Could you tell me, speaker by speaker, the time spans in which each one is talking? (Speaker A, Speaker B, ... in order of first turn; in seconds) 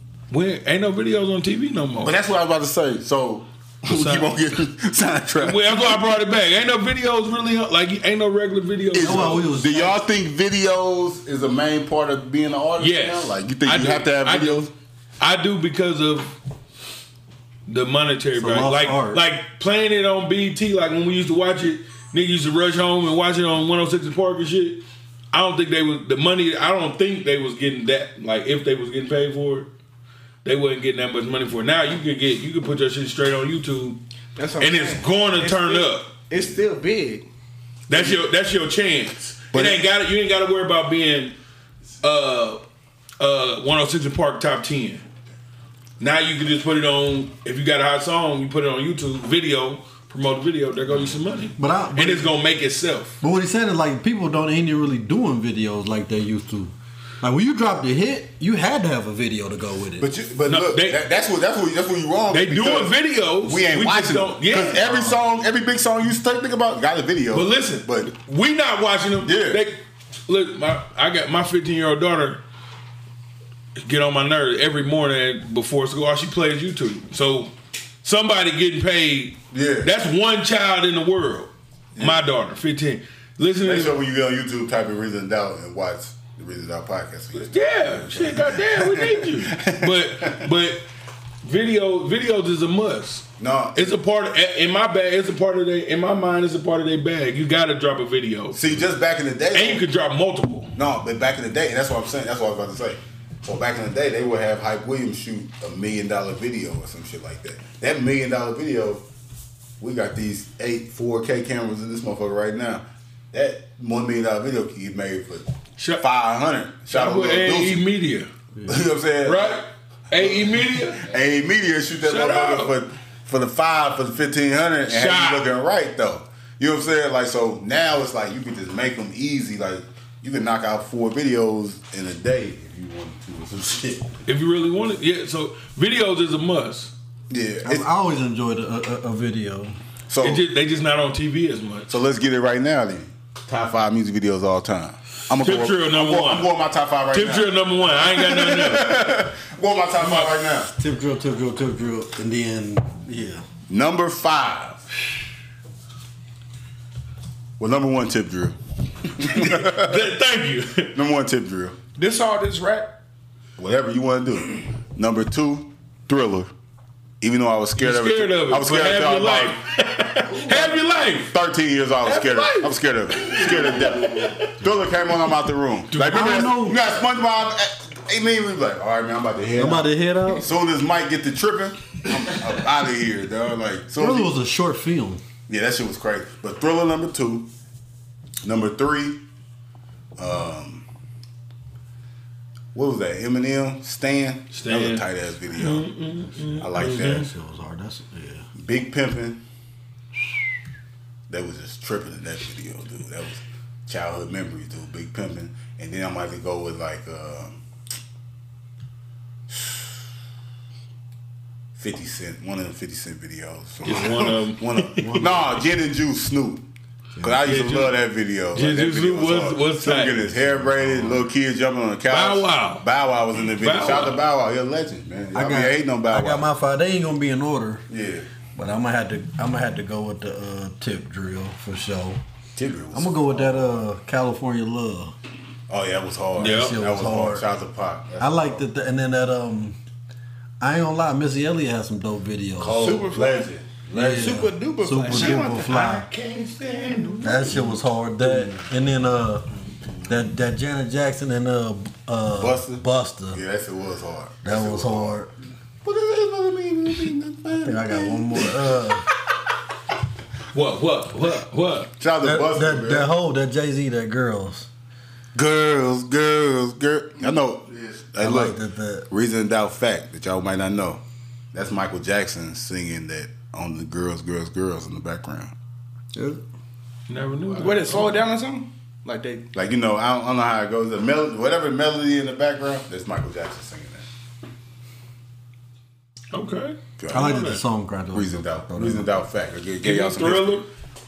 Speaker A: 0.3-2.1, 3.9-4.4, 5.4-9.4, 12.8-14.7, 15.2-16.3, 17.7-29.7, 30.4-34.0, 34.6-36.1, 37.9-41.4, 42.0-42.6, 43.2-45.0, 46.0-53.2, 60.5-61.0, 62.3-65.1, 67.3-72.4, 73.8-83.9, 87.3-90.8, 91.4-98.8, 99.5-100.7, 115.8-116.0, 116.9-118.3, 119.2-121.1, 122.0-122.7, 124.9-125.5, 134.2-136.9, 140.2-141.9, 145.3-146.5, 147.1-149.0, 150.0-150.4, 159.2-160.9, 167.8-171.3, 172.0-174.5, 175.9-176.5, 194.5-197.3, 213.8-215.4, 217.3-218.0, 218.5-220.3, 222.1-222.8, 223.5-224.2, 236.4-236.8, 245.1-247.7, 260.5-261.9, 277.1-278.3, 286.3-287.6, 289.8-290.7
Speaker B: 2.0-6.1, 8.9-14.7, 39.5-39.8, 60.0-68.1, 69.2-69.6, 79.5-79.9, 82.0-82.3, 83.6-90.5, 93.4-93.9, 98.5-99.8, 100.7-109.0, 109.8-117.8, 118.7-119.6, 120.1-134.1, 137.3-137.9, 140.1-140.4, 141.9-150.7, 153.7-154.8, 157.6-160.0, 160.9-161.8, 163.6-166.5, 167.2-169.6, 170.4-170.8, 171.3-184.3, 185.5-187.5, 188.4-189.2, 190.2-190.8, 192.7-195.9, 196.6-197.3, 198.6-199.4, 201.3-207.6, 209.5-210.0, 211.8-216.6, 217.2-226.5, 227.9-228.2, 232.6-233.8, 235.7-238.6, 242.6-244.4, 247.5-248.7, 252.4-255.2, 255.8-258.7, 262.0-263.1, 265.3-268.6, 269.1-271.0, 271.5-275.5, 279.5-284.1, 287.0-287.4, 288.1-290.6
Speaker C: 9.0-9.9, 18.4-19.2, 51.6-52.3, 53.2-60.1, 137.6-139.8, 150.8-153.4, 176.0-176.8, 179.6-180.5, 184.0-185.2, 196.9-198.4, 215.0-215.6, 220.4-221.2, 225.3-227.8, 228.5-232.2, 232.9-235.1, 236.4-237.5, 238.2-239.8, 240.6-243.0, 243.9-246.1, 247.2-249.5, 250.1-253.4, 254.4-255.3, 257.5-259.0, 262.2-264.7, 268.2-269.1, 276.1-276.4, 287.1-289.1
Speaker D: 34.4-37.2, 161.9-162.9, 242.7-243.5, 244.0-245.8, 277.5-279.4